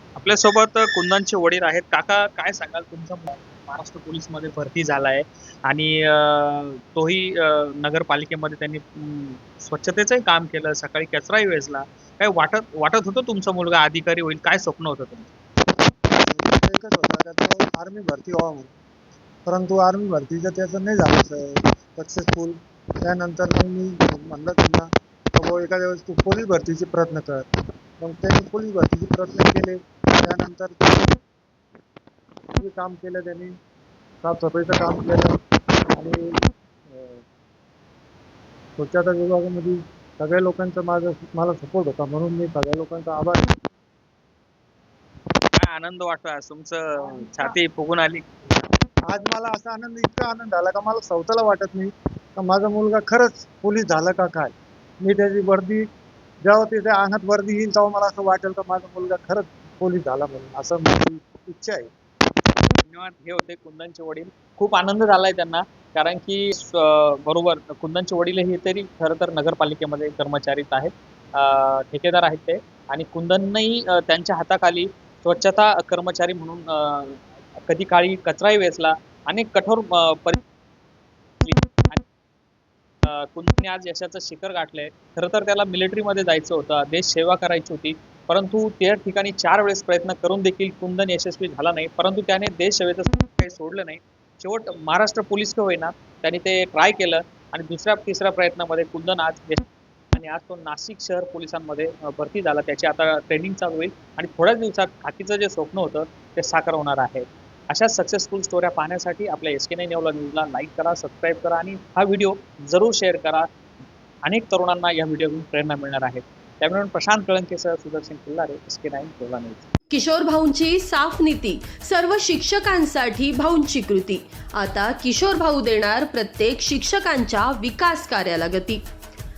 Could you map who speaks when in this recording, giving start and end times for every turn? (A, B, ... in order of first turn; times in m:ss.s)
0:00.2-0:15.3 A
0:16.1-0:18.7 B
0:19.4-0:27.5 B
0:28.0-0:31.2 B
0:32.6-0:33.6 B
0:34.2-0:35.4 B
0:35.9-0:37.2 B
0:38.8-0:43.4 B
0:45.5-0:48.6 A
0:49.0-0:55.9 B
0:56.4-1:01.9 B
1:02.9-1:20.4 A
1:21.4-1:22.0 A
1:23.0-1:53.5 A
1:54.2-1:59.7 A
1:59.9-2:08.8 C